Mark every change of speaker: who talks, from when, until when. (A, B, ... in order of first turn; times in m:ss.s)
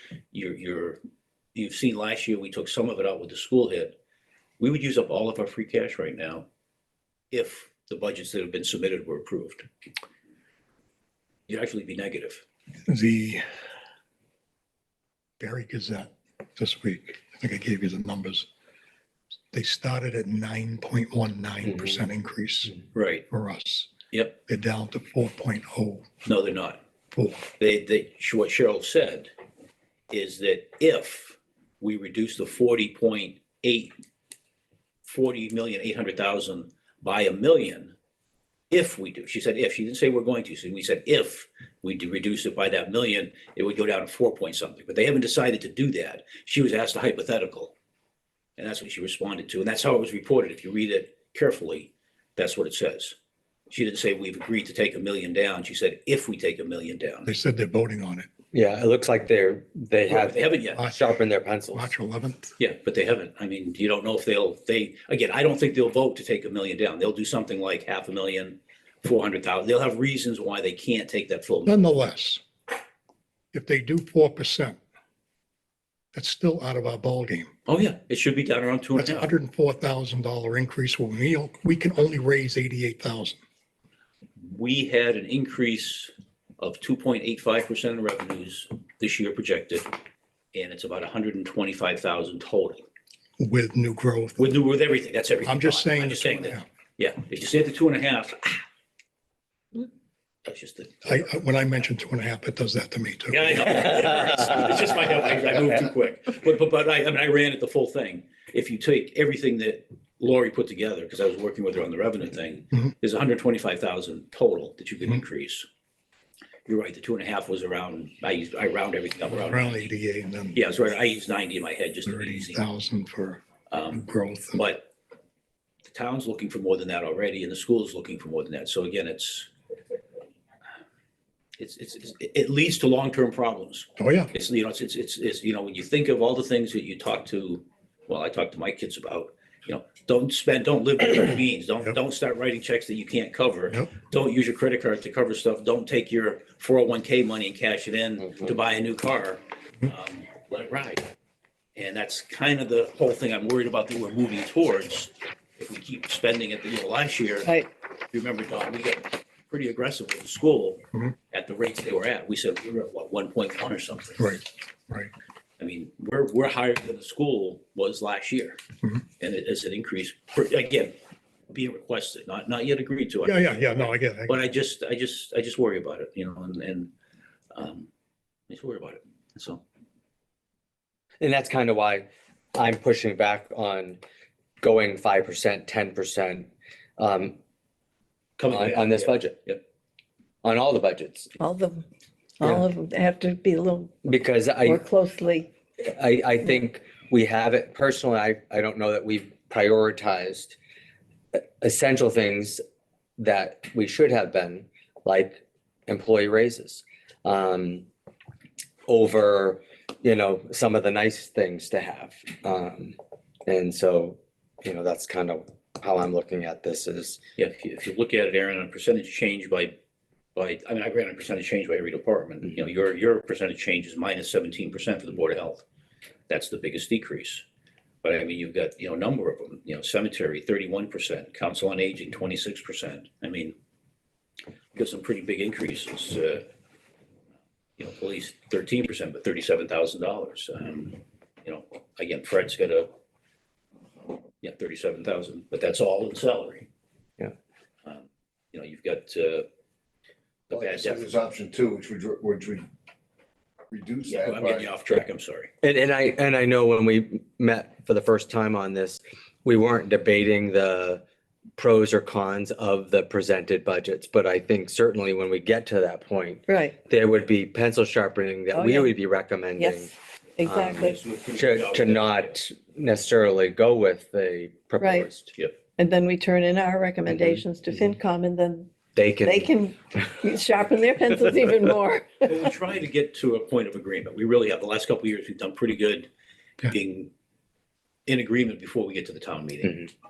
0:00.3-0:01.0 A
0:01.6-0:04.0 A
0:04.6-0:06.5 A
0:07.3-0:09.7 A
0:11.5-0:12.4 A
0:12.9-0:13.4 B
0:15.4-0:18.5 B
0:19.5-0:23.9 B
0:22.9-0:23.3 A
0:24.5-0:26.1 B
0:26.3-0:26.8 A
0:27.1-0:27.5 B
0:27.6-0:29.3 A
0:30.1-0:33.9 A
0:35.0-0:38.0 A
0:38.7-0:47.7 A
0:48.6-0:53.2 A
0:53.7-0:57.3 A
0:57.2-0:58.3 B
0:58.5-1:01.9 C
1:00.1-1:00.9 A
1:01.7-1:02.5 B
1:02.6-1:11.9 A
1:11.6-1:12.4 B
1:13.5-1:14.8 B
1:16.1-1:17.5 B
1:17.7-1:19.3 A
1:19.0-1:23.4 B
1:24.4-1:29.9 A
1:30.5-1:32.9 A
1:33.4-1:34.6 B
1:34.4-1:38.6 A
1:35.4-1:36.7 B
1:40.4-1:41.3 A
1:41.1-1:43.7 B
1:43.3-1:55.7 A
1:56.7-1:59.9 A
1:59.4-2:00.6 B
2:00.5-2:02.6 A
2:02.1-2:03.4 B
2:03.7-2:04.0 A
2:03.9-2:04.6 B
2:04.6-2:04.9 A
2:05.9-2:09.5 A
2:11.6-2:31.1 A
2:14.0-2:14.3 B
2:31.8-2:37.6 A
2:38.1-2:44.3 A
2:44.2-2:45.1 B
2:45.6-2:48.6 A
2:49.2-2:51.0 A
2:51.5-2:56.9 A
2:53.2-2:54.4 B
2:57.5-2:57.9 A
2:58.5-2:59.6 A
3:01.2-3:04.0 C
3:04.6-3:07.4 C
3:08.4-3:09.6 A
3:08.5-3:09.4 C
3:10.4-3:11.4 C
3:11.4-3:11.9 D
3:12.4-3:13.9 D
3:14.0-3:14.8 C
3:14.6-3:15.5 D
3:15.8-3:20.6 C
3:21.4-3:22.6 C
3:23.2-3:27.9 C
3:28.9-3:37.2 C
3:37.4-3:39.8 A
3:40.4-3:45.6 A
3:46.3-3:47.4 A
3:48.0-3:53.6 A
3:54.7-3:56.4 A
3:57.8-4:02.9 A
4:04.4-4:06.7 A
4:07.9-4:09.5 A
4:10.5-4:11.2 A
4:10.5-4:12.6 E
4:13.7-4:14.7 E
4:14.1-4:15.5 A
4:15.6-4:21.0 C
4:21.6-4:29.9 C
4:26.5-4:26.8 D
4:28.5-4:28.9 D
4:29.6-4:31.0 D
4:30.4-4:35.3 C
4:30.8-4:32.4 A
4:34.8-4:35.1 D
4:35.8-4:38.7 D
4:37.1-4:37.9 C
4:39.0-4:39.5 C
4:39.2-4:42.3 D
4:42.3-4:46.1 A
4:46.6-4:47.1 A
4:48.1-4:49.9 A